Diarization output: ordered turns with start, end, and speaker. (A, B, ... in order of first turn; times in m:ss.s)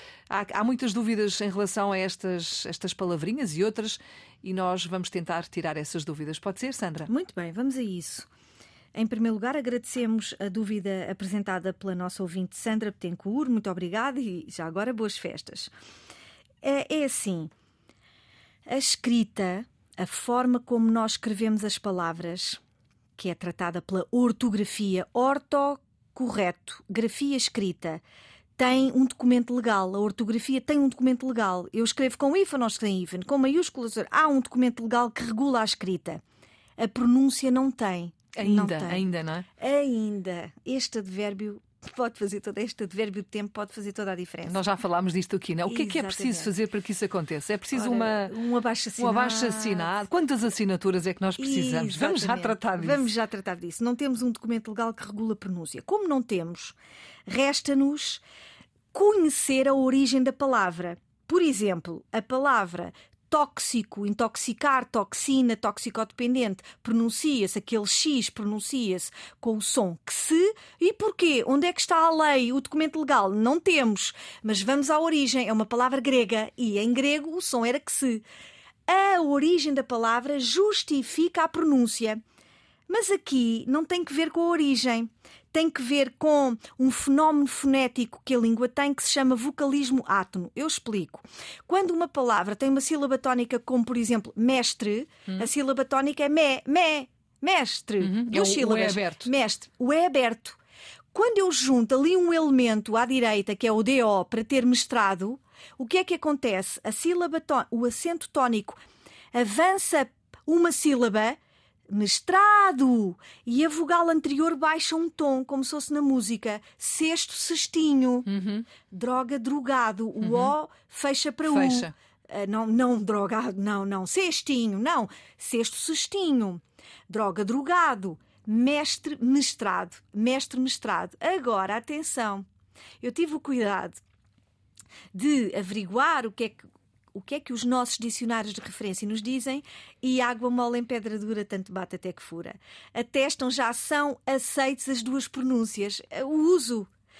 0:00.3-0:07.1 A
0:07.0-0:08.3 B
0:08.9-0:15.7 B
0:16.6-0:17.5 B
0:18.7-0:22.6 B
0:23.2-0:28.0 B
0:28.6-0:36.2 B
0:36.8-0:39.0 B
0:38.4-0:39.4 A
0:39.6-0:44.6 B
0:44.5-0:48.3 A
0:45.6-0:46.5 B
0:47.7-0:49.9 B
0:49.0-0:53.0 A
0:51.4-0:56.8 B
0:57.3-0:58.2 B
0:58.9-1:18.2 B
1:18.9-1:22.2 B
1:22.9-1:40.6 B
1:38.0-1:39.3 A
1:41.1-1:48.8 B
1:49.3-1:51.4 B
1:51.9-1:58.3 B
1:58.2-1:58.6 A
1:58.9-2:12.4 B
2:00.2-2:00.5 A
2:01.5-2:01.9 A
2:13.0-2:14.0 B
2:15.1-2:26.9 B